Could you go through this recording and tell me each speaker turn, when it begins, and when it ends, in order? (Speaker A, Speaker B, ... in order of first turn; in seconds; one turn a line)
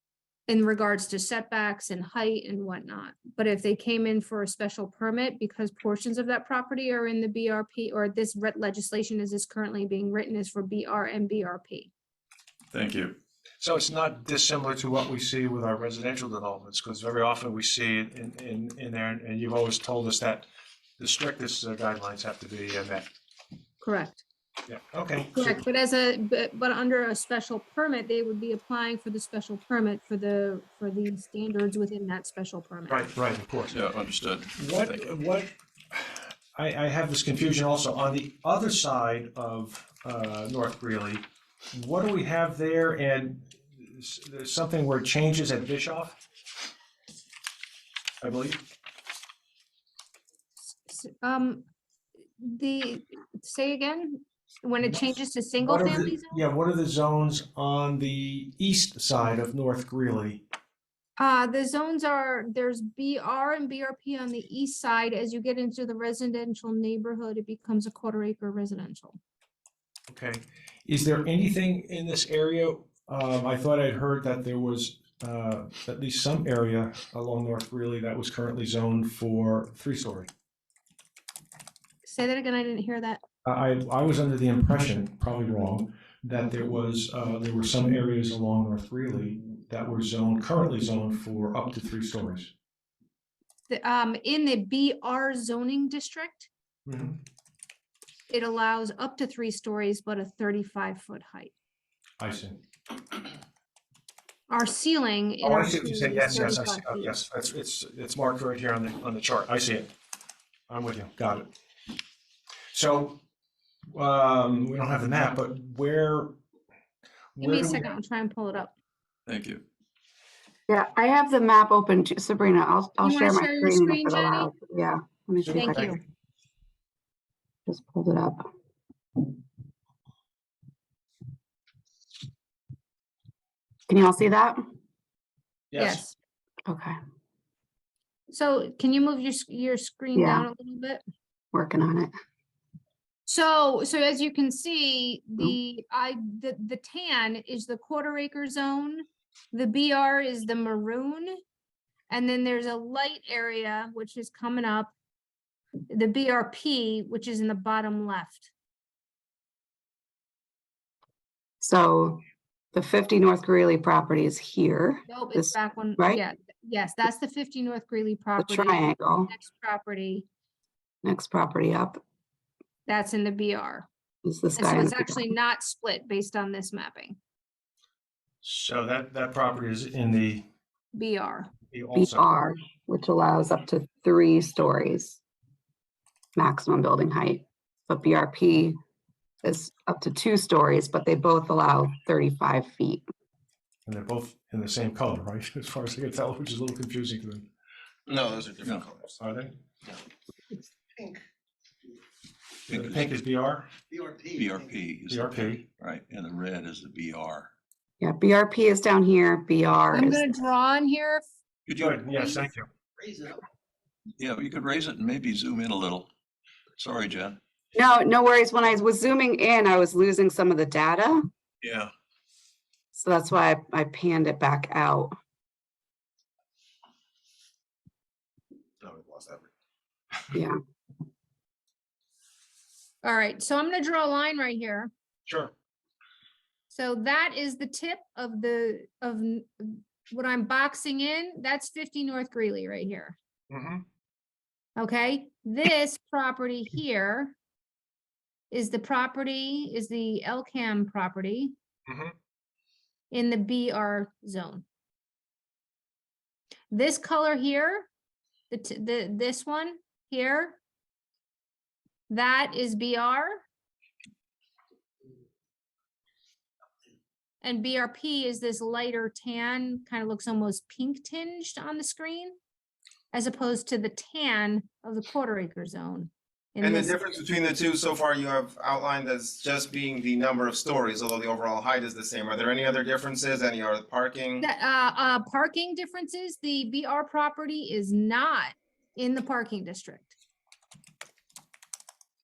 Speaker A: 0.5-11.9
Speaker B: 12.7-13.2
Speaker C: 13.6-20.5
Speaker C: 21.0-23.1
Speaker A: 23.8-24.2
Speaker C: 24.7-25.6
Speaker A: 25.3-33.1
Speaker C: 32.9-33.8
Speaker B: 33.7-35.0
Speaker C: 34.5-35.5
Speaker C: 36.5-46.2
Speaker C: 48.2-48.6
Speaker A: 50.7-51.6
Speaker A: 52.4-56.4
Speaker C: 54.8-60.4
Speaker A: 61.2-69.2
Speaker C: 70.1-80.3
Speaker A: 82.0-83.2
Speaker C: 83.5-92.5
Speaker A: 93.7-96.5
Speaker C: 96.9-97.2
Speaker A: 98.3-101.5
Speaker C: 102.2-102.6
Speaker A: 104.5-107.1
Speaker C: 105.4-109.9
Speaker C: 110.7-111.5
Speaker C: 112.7-113.2
Speaker C: 113.9-116.4
Speaker C: 117.4-117.9
Speaker A: 117.4-118.7
Speaker B: 119.3-119.6
Speaker D: 120.7-125.9
Speaker A: 123.0-124.5
Speaker C: 125.4-125.9
Speaker A: 125.5-126.0
Speaker D: 127.7-128.4
Speaker D: 133.9-134.6
Speaker C: 135.7-136.0
Speaker A: 135.8-136.2
Speaker D: 136.7-136.9
Speaker A: 138.3-141.0
Speaker D: 140.2-140.5
Speaker D: 141.5-142.1
Speaker A: 143.3-151.4
Speaker A: 152.1-154.9
Speaker A: 155.9-158.5
Speaker D: 161.6-162.2
Speaker D: 162.7-166.2
Speaker A: 165.1-170.3
Speaker D: 168.4-169.3
Speaker D: 171.0-172.0
Speaker A: 172.9-173.9
Speaker D: 174.2-175.2
Speaker A: 174.6-177.2
Speaker C: 178.4-180.4
Speaker A: 180.9-181.5
Speaker C: 181.7-182.2
Speaker D: 182.0-185.2
Speaker D: 186.4-188.8
Speaker D: 189.4-193.0
Speaker C: 193.9-197.5
Speaker E: 198.1-199.2
Speaker C: 199.2-199.6
Speaker B: 202.7-203.1
Speaker C: 202.7-203.7
Speaker B: 204.2-207.5
Speaker C: 205.1-205.6
Speaker D: 208.0-210.2
Speaker A: 209.9-211.2
Speaker B: 211.7-212.0
Speaker C: 211.8-212.7
Speaker B: 214.2-216.1
Speaker B: 216.8-217.4
Speaker D: 217.8-221.3
Speaker B: 221.6-221.9
Speaker D: 222.9-225.1
Speaker E: 228.8-229.5
Speaker A: 233.0-234.9
Speaker C: 235.3-235.5
Speaker A: 236.7-243.2
Speaker C: 243.5-243.8
Speaker A: 244.8-247.4
Speaker A: 248.5-251.5
Speaker C: 251.9-252.1
Speaker A: 253.1-254.7
Speaker A: 256.7-257.9
Speaker A: 258.5-260.6
Speaker A: 262.1-263.4
Speaker A: 267.4-272.4
Speaker A: 273.1-277.0
Speaker E: 276.6-284.4
Speaker A: 284.4-290.2